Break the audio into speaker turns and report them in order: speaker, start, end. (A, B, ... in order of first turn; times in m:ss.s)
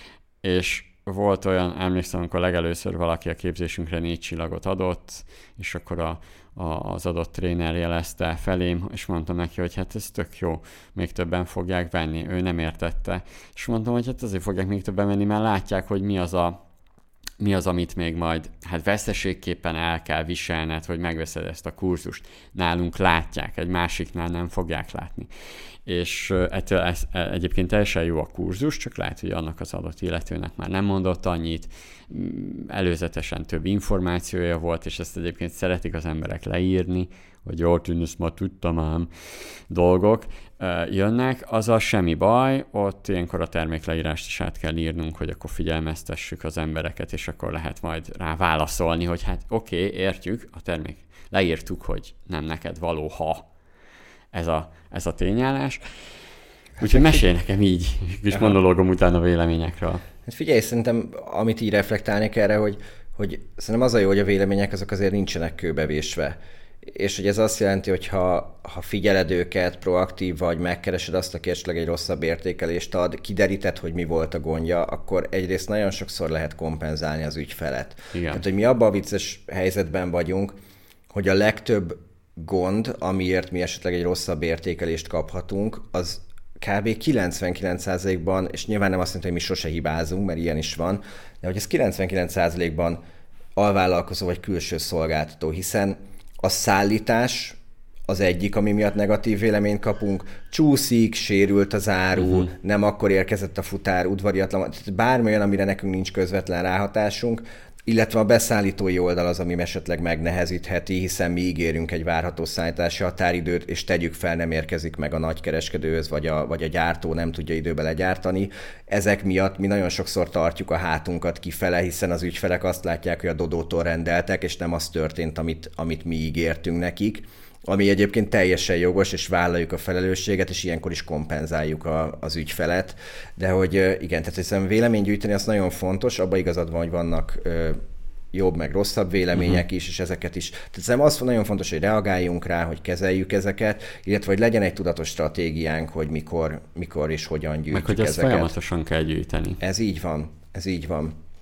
0:00.4-0:16.6 A
0:17.4-0:25.3 A
0:25.9-0:39.1 A
0:39.7-0:53.5 A
0:54.3-0:55.8 A
0:56.8-0:57.2 B
0:56.8-1:00.0 A
1:00.3-1:20.6 B
1:18.1-1:18.4 A
1:21.1-1:33.0 B
1:33.6-1:37.6 B
1:38.1-2:17.8 B
2:18.3-2:28.5 B
2:27.7-2:29.6 A
2:29.6-2:31.2 B